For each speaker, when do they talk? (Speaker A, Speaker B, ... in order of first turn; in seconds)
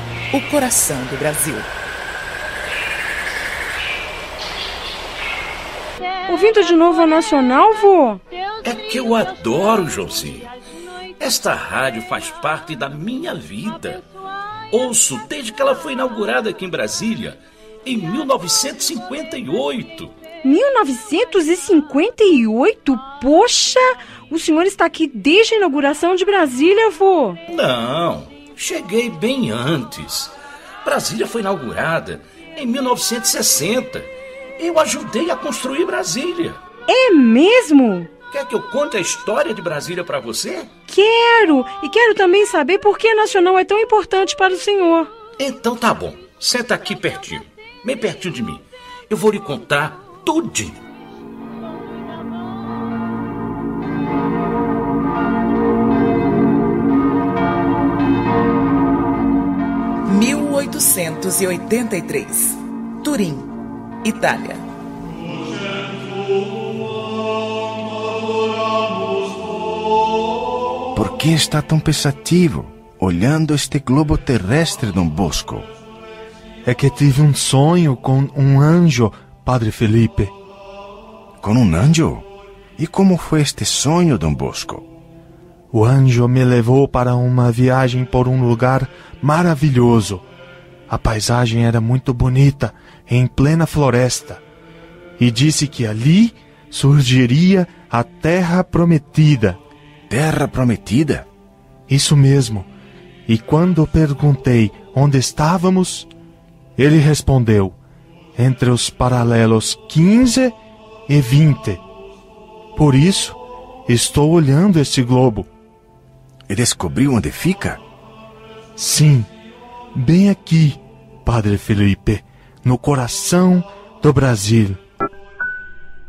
Speaker A: 0.3-1.7, 60.1-63.5, 64.0-64.6
Speaker B: 6.3-8.2, 20.4-27.4, 36.9-38.1, 40.9-45.1
Speaker C: 8.6-10.5, 11.2-14.0, 14.7-20.1, 27.5-36.6, 38.3-40.7, 45.4-50.8
Speaker D: 71.0-75.7, 81.4-82.3, 82.8-84.9, 100.1-101.3, 116.5-117.8
Speaker E: 76.7-80.3, 85.7-90.2, 90.9-94.4, 95.2-99.6, 101.9-102.7, 103.3-106.1, 106.8-107.8, 108.4-110.6, 111.1-111.8, 112.8-115.5, 118.8-119.3, 120.0-124.8